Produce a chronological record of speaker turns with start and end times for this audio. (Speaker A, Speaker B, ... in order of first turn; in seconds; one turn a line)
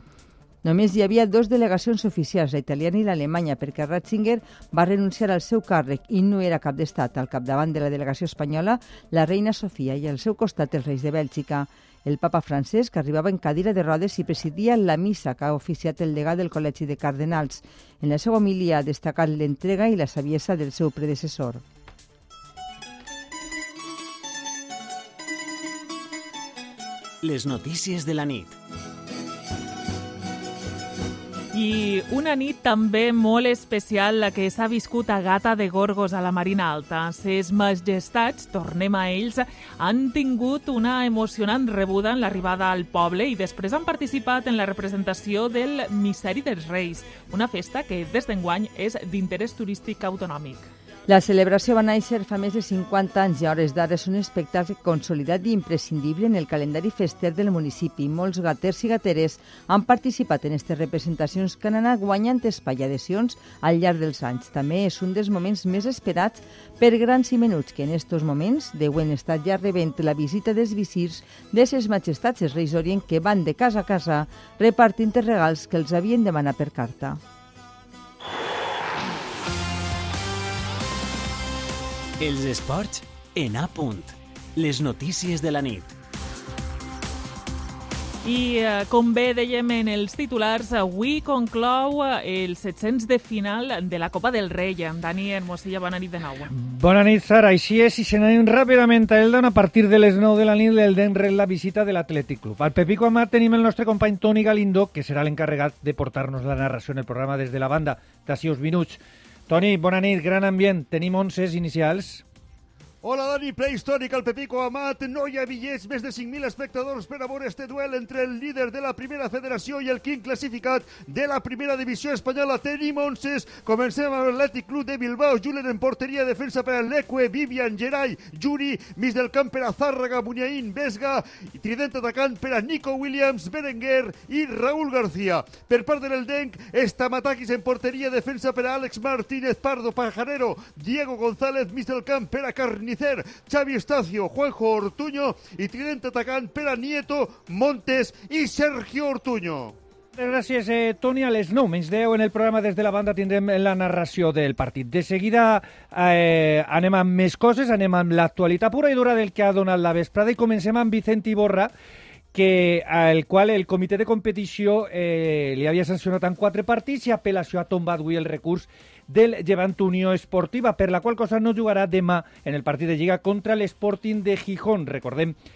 Speaker A: 0.6-21.6
Speaker B: 27.2-28.6
Speaker C: 31.5-50.7
Speaker A: 51.1-77.2
Speaker B: 82.2-85.9
Speaker C: 88.2-96.5
Speaker D: 96.5-112.2
Speaker E: 113.0-149.8
Speaker D: 150.2-161.7
Speaker D: 162.3-175.4